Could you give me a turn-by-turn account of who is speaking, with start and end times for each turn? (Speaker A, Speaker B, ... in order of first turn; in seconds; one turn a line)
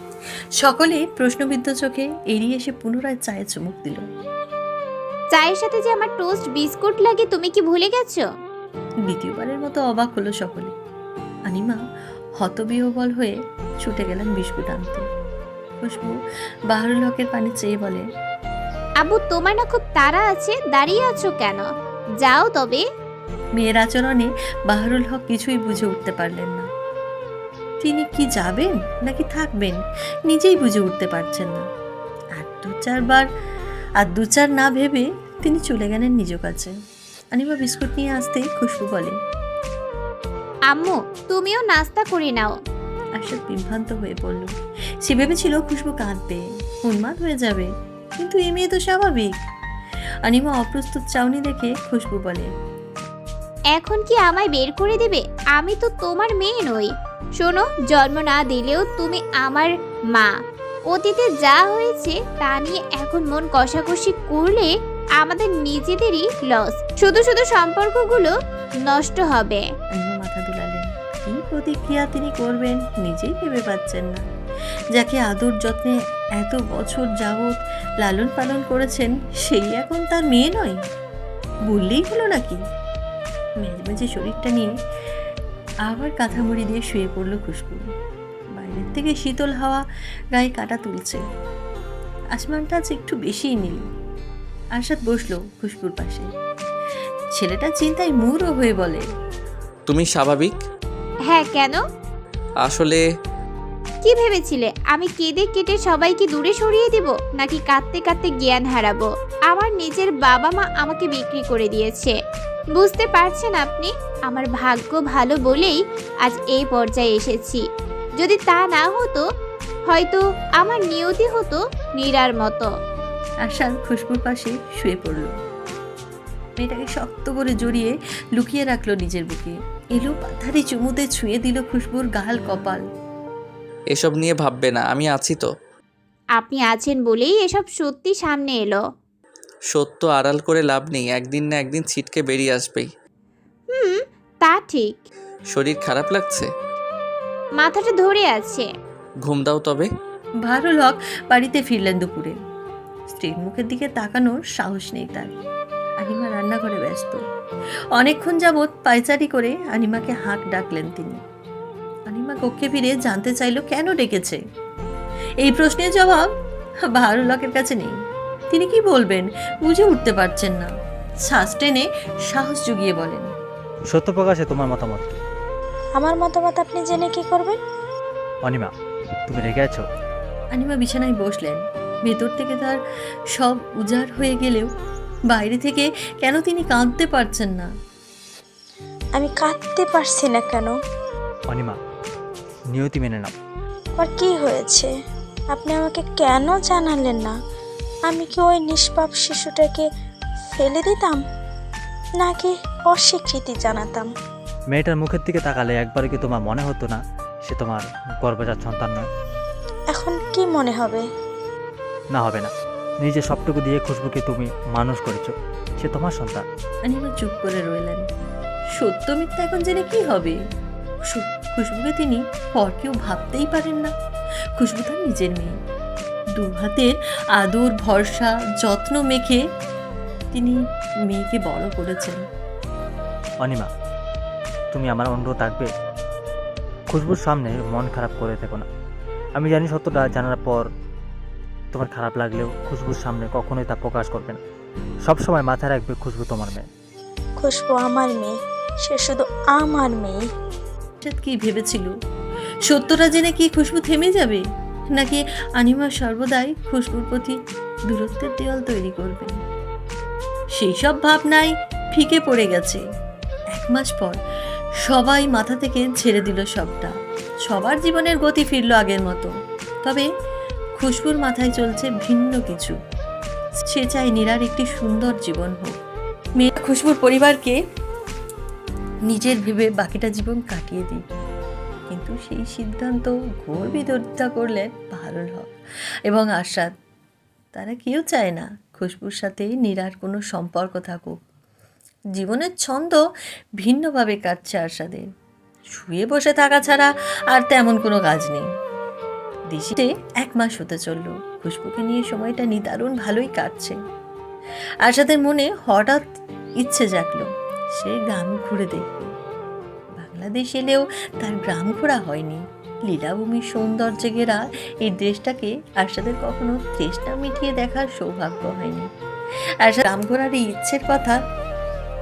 Speaker A: 0.6-4.0
Speaker B: 5.3-8.2
Speaker A: 9.1-10.7
Speaker A: 11.5-11.8
Speaker A: 12.4-15.0
Speaker A: 15.8-16.1
Speaker A: 16.7-18.0
Speaker B: 19.0-21.7
Speaker B: 22.2-22.8
Speaker A: 23.6-26.7
Speaker A: 27.8-31.6
Speaker A: 32.4-33.3
Speaker A: 34.0-36.7
Speaker A: 37.4-39.1
Speaker B: 40.7-42.5
Speaker A: 43.2-44.5
Speaker A: 45.1-49.4
Speaker A: 50.3-52.5
Speaker B: 53.8-60.3
Speaker B: 60.9-68.3
Speaker B: 68.9-69.6
Speaker A: 70.0-74.2
Speaker A: 75.0-80.8
Speaker A: 81.7-82.6
Speaker A: 83.6-84.7
Speaker A: 85.9-87.8
Speaker A: 88.6-89.8
Speaker A: 90.3-91.2
Speaker A: 92.3-93.8
Speaker A: 94.8-96.3
Speaker A: 97.4-99.0
Speaker C: 99.9-100.6
Speaker B: 101.3-101.8
Speaker C: 102.7-103.0
Speaker B: 104.0-112.2
Speaker B: 112.8-117.6
Speaker B: 118.2-119.2
Speaker B: 119.9-122.7
Speaker A: 123.5-125.3
Speaker A: 126.6-132.8
Speaker C: 133.9-135.5
Speaker B: 136.4-138.8
Speaker C: 139.7-142.9
Speaker B: 143.7-145.0
Speaker C: 145.5-146.5
Speaker B: 147.6-148.7
Speaker C: 149.3-149.9
Speaker A: 150.5-152.4
Speaker A: 153.1-155.3
Speaker A: 156.0-157.2
Speaker A: 158.0-161.2
Speaker A: 162.1-164.4
Speaker A: 165.4-166.3
Speaker A: 166.9-167.9
Speaker A: 168.5-170.7
Speaker A: 171.3-173.3
Speaker D: 173.9-175.2
Speaker E: 176.0-177.6
Speaker D: 178.4-178.7
Speaker D: 179.3-179.8
Speaker A: 180.5-182.8
Speaker A: 183.4-184.7
Speaker A: 185.3-187.7
Speaker E: 189.2-190.7
Speaker D: 192.7-193.3
Speaker E: 194.0-194.9
Speaker E: 195.5-197.3
Speaker E: 198.1-199.8
Speaker E: 200.6-201.2
Speaker E: 202.2-204.1
Speaker D: 204.7-209.1
Speaker E: 209.9-211.0
Speaker D: 212.1-212.5
Speaker D: 213.0-216.4
Speaker A: 216.9-218.0
Speaker A: 218.8-220.4
Speaker A: 221.1-223.9
Speaker A: 224.6-225.6
Speaker A: 226.4-229.4
Speaker A: 231.1-232.2
Speaker D: 234.7-235.7
Speaker D: 236.9-238.7
Speaker D: 239.4-240.7
Speaker D: 241.7-244.4
Speaker D: 245.1-246.7
Speaker E: 247.4-248.3
Speaker E: 248.8-250.2
Speaker A: 251.0-251.9
Speaker A: 252.7-254.4
Speaker A: 255.0-257.4
Speaker A: 257.9-259.4
Speaker A: 260.6-262.8
Speaker A: 263.5-264.2
Speaker A: 264.9-266.9
Speaker A: 267.5-269.3
Speaker A: 270.8-272.8
Speaker A: 273.7-275.8
Speaker A: 276.4-277.6
Speaker A: 279.1-281.0
Speaker A: 281.9-285.5
Speaker A: 286.1-286.7
Speaker A: 287.5-291.2
Speaker A: 292.2-293.0
Speaker A: 293.6-295.1
Speaker A: 295.7-298.5
Speaker A: 299.5-303.8
Speaker A: 304.9-306.0
Speaker A: 306.6-309.1
Speaker A: 310.0-318.9
Speaker A: 319.6-321.2